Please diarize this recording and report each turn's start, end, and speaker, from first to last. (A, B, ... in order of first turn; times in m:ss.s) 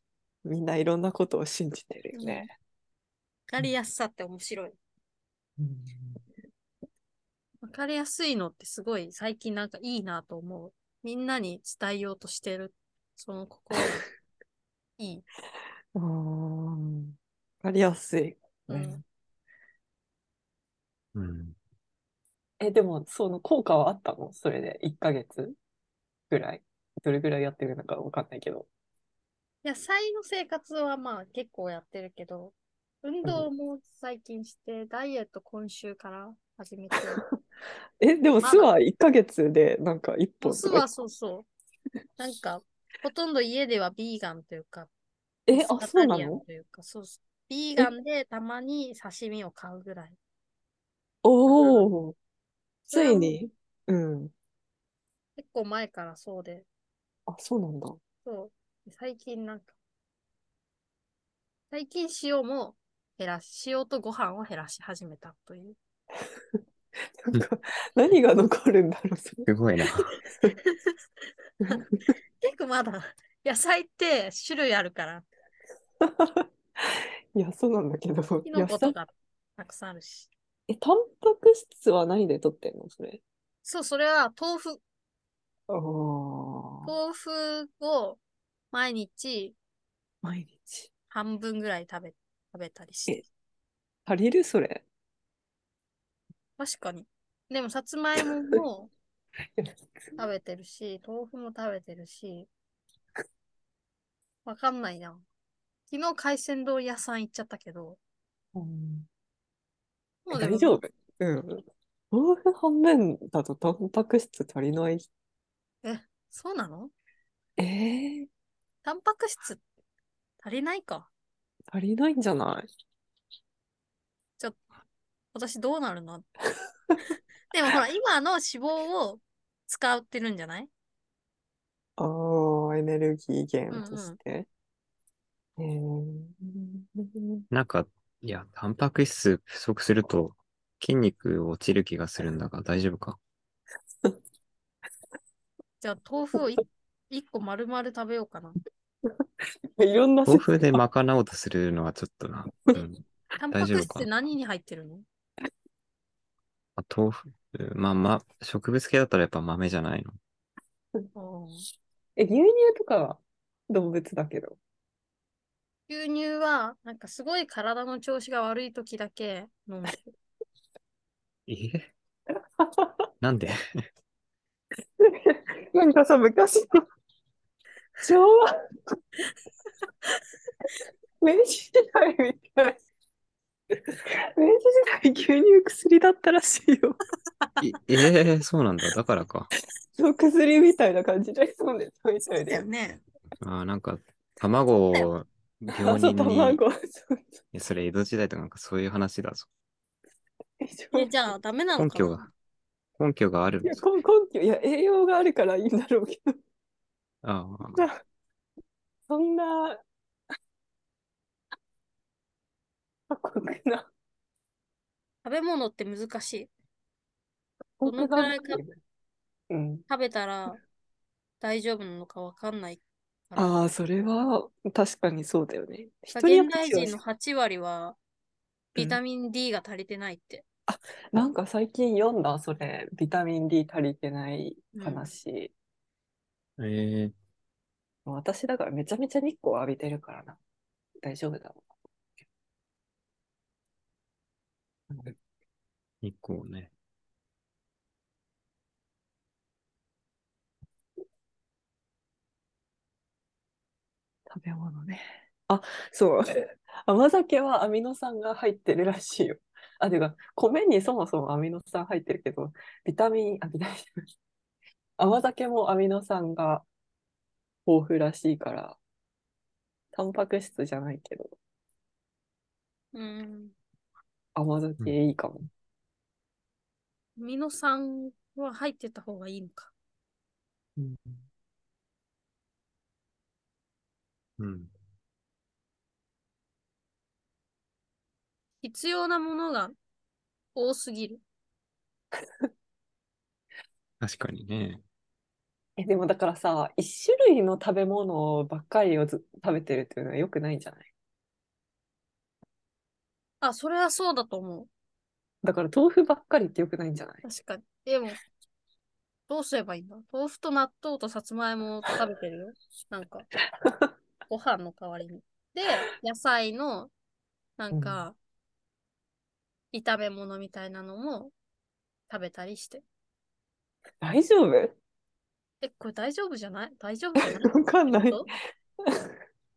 0:00.4-0:02.5 A
0:02.1-0:02.5 B
0:03.5-0:04.8 B
0:05.6-0:06.2 A
0:07.6-0:14.0 B
0:15.0-0:15.2 B
0:15.9-0:19.0 A
0:18.7-0:19.0 B
0:21.1-0:21.6 C
0:22.6-0:25.6 A
0:26.3-0:28.7 A
0:29.6-0:37.2 B
0:38.0-0:40.9 A
0:38.4-0:38.7 B
0:40.4-0:41.5 B
0:42.2-0:44.9 B
0:45.5-0:46.4 A
0:45.5-0:50.2 B
0:51.2-0:52.2 A
0:51.4-0:51.9 B
0:52.9-0:53.4 B
0:52.9-0:54.3 A
0:55.4-0:56.6 B
0:57.3-0:58.0 A
0:58.2-0:59.7 B
1:01.7-1:05.8 B
1:07.2-1:09.5 A
1:09.4-1:10.1 C
1:10.7-1:10.9 B
1:12.4-1:15.2 B
1:16.0-1:19.0 A
1:18.4-1:20.3 B
1:20.7-1:23.2 A
1:23.6-1:24.8 B
1:25.7-1:26.9 A
1:26.8-1:28.2 B
1:28.7-1:29.6 B
1:30.2-1:30.9 A
1:31.1-1:33.2 B
1:34.0-1:34.8 A
1:36.6-1:38.9 B
1:40.2-1:42.5 B
1:44.4-1:45.2 B
1:45.9-1:48.0 B
1:48.5-1:49.1 A
1:50.2-1:50.8 B
1:50.3-1:55.0 A
1:55.8-1:56.9 B
1:57.6-1:58.3 A
1:58.8-1:59.6 B
2:00.4-2:01.1 B
2:01.7-2:02.7 A
2:05.3-2:06.2 B
2:07.5-2:10.7 B
2:12.0-2:14.5 A
2:13.7-2:14.2 B
2:15.6-2:17.4 A
2:17.5-2:23.2 C
2:25.8-2:28.6 B
2:29.8-2:30.8 A
2:30.2-2:34.1 C
2:33.4-2:35.0 B
2:36.8-2:40.2 C
2:41.1-2:41.6 B
2:42.2-2:44.6 A
2:45.9-2:50.0 B
2:51.5-2:51.9 C
2:52.6-2:53.0 A
2:53.2-2:53.8 C
2:55.0-2:56.8 A
2:58.0-2:59.0 A
3:01.2-3:02.8 A
3:03.7-3:07.0 A
3:07.6-3:09.5 C
3:10.0-3:12.6 A
3:12.4-3:13.0 B
3:13.4-3:16.6 C
3:15.8-3:17.4 A
3:17.5-3:19.5 C
3:20.6-3:21.1 A
3:20.9-3:22.3 B
3:21.8-3:22.3 C
3:23.0-3:23.8 C
3:23.6-3:26.4 A
3:27.2-3:27.9 C
3:27.8-3:28.0 A
3:29.1-3:29.8 A
3:33.1-3:33.9 A
3:35.2-3:36.5 B
3:37.8-3:38.8 A
3:37.8-3:38.6 B
3:39.5-3:39.8 A
3:39.9-3:40.6 B
3:41.4-3:43.6 B
3:43.4-3:47.0 A
3:46.1-3:48.0 B
3:48.7-3:50.4 B
3:50.7-3:55.5 A
3:54.7-3:55.1 B
3:56.6-3:57.1 C
3:58.0-4:00.4 A
4:01.0-4:01.6 A
4:04.9-4:05.2 A
4:06.0-4:06.7 C
4:14.3-4:24.0 A
4:25.0-4:26.6 A
4:27.6-4:28.8 A
4:29.9-4:31.3 A
4:32.9-4:33.5 B
4:34.4-4:35.5 A
4:37.2-4:39.7 B
4:40.8-4:41.1 A
4:44.4-4:44.7 C
4:48.6-4:49.7 B
4:50.5-4:51.2 B
4:54.0-4:54.8 C
4:55.8-5:00.9 A
5:03.4-5:04.7 B
5:05.4-5:07.2 A
5:07.2-5:08.2 B
5:09.3-5:13.3 B
5:13.6-5:13.9 A
5:14.3-5:16.9 B
5:17.6-5:18.2 B
5:17.7-5:18.0 A
5:19.7-5:21.3 B
5:22.1-5:22.8 B
5:24.0-5:24.8 A
5:25.6-5:28.3 B
5:27.2-5:28.3 A